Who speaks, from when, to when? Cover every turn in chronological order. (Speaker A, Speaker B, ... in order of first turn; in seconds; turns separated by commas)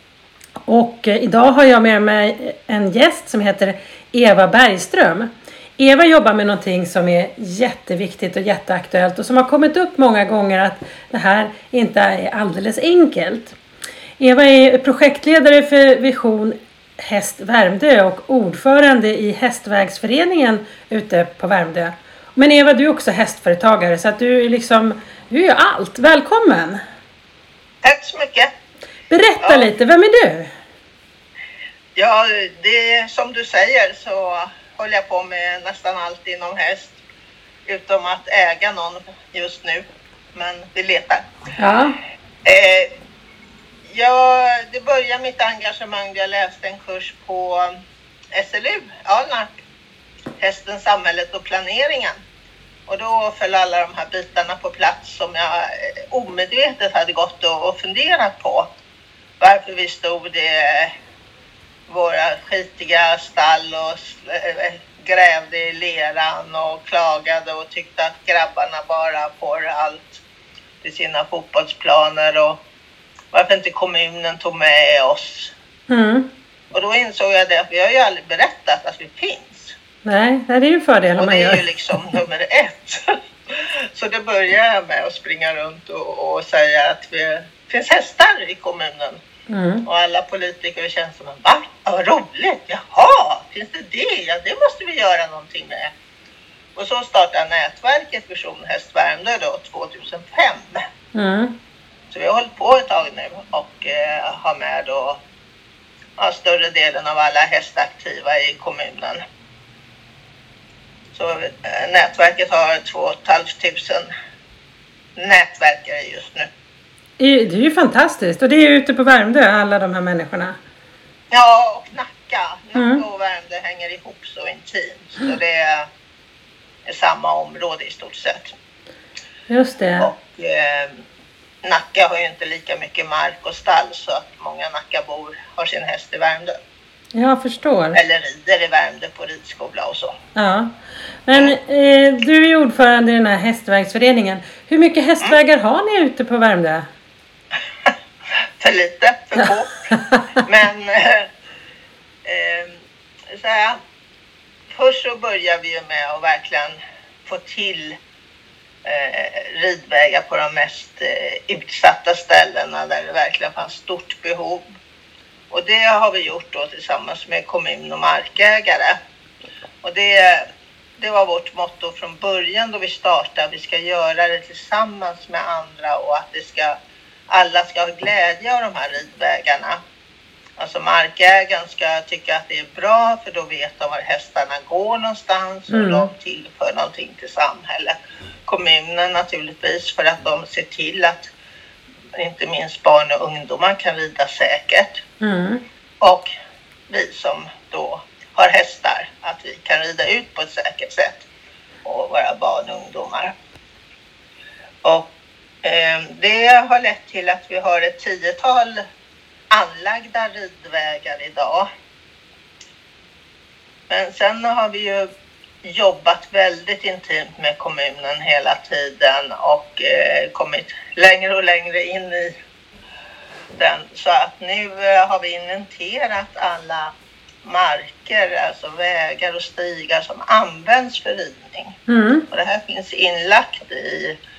Speaker A: 0.7-13.6, Speaker A: 14.2-26.8, Speaker B: 27.8-28.5, Speaker A: 29.1-30.5, Speaker B: 29.4-29.7, Speaker B: 31.9-37.0, Speaker B: 37.6-41.3, Speaker A: 41.6-41.9, Speaker B: 42.4-42.9, Speaker B: 43.9-47.7, Speaker B: 48.3-49.5, Speaker B: 50.4-52.2, Speaker B: 52.9-58.7, Speaker B: 59.4-60.9, Speaker B: 61.9-70.2, Speaker B: 70.8-72.6, Speaker B: 73.3-75.5, Speaker A: 75.9-76.3, Speaker B: 76.7-79.8, Speaker A: 80.0-81.6, Speaker B: 81.2-89.2, Speaker A: 89.5-89.8, Speaker B: 89.8-95.9, Speaker B: 96.7-100.8, Speaker A: 101.1-101.5, Speaker B: 102.1-105.2, Speaker B: 106.2-109.2, Speaker B: 111.1-114.1, Speaker B: 115.2-116.5, Speaker A: 117.2-120.6, Speaker B: 121.3-125.9, Speaker A: 122.7-123.0, Speaker B: 126.8-128.5, Speaker A: 129.5-130.1, Speaker B: 130.0-131.0, Speaker B: 131.6-136.6, Speaker A: 137.1-138.0, Speaker B: 137.9-140.1, Speaker A: 140.3-140.7, Speaker A: 141.2-146.9, Speaker B: 148.6-149.9, Speaker A: 149.9-150.2, Speaker B: 150.4-151.3, Speaker B: 152.2-153.8, Speaker B: 154.7-158.0, Speaker B: 158.8-164.7, Speaker B: 165.5-169.0, Speaker B: 169.8-176.8, Speaker B: 177.3-179.8, Speaker B: 180.6-191.3, Speaker A: 185.7-186.1, Speaker B: 192.1-195.0, Speaker A: 195.2-195.6, Speaker B: 196.0-196.3, Speaker B: 196.9-201.2, Speaker B: 201.8-203.3, Speaker B: 204.8-205.1, Speaker B: 205.6-208.8, Speaker B: 209.5-211.7, Speaker B: 213.9-215.1, Speaker B: 215.6-222.3, Speaker B: 223.6-226.9, Speaker B: 227.4-231.8, Speaker A: 231.9-232.3, Speaker B: 232.3-234.2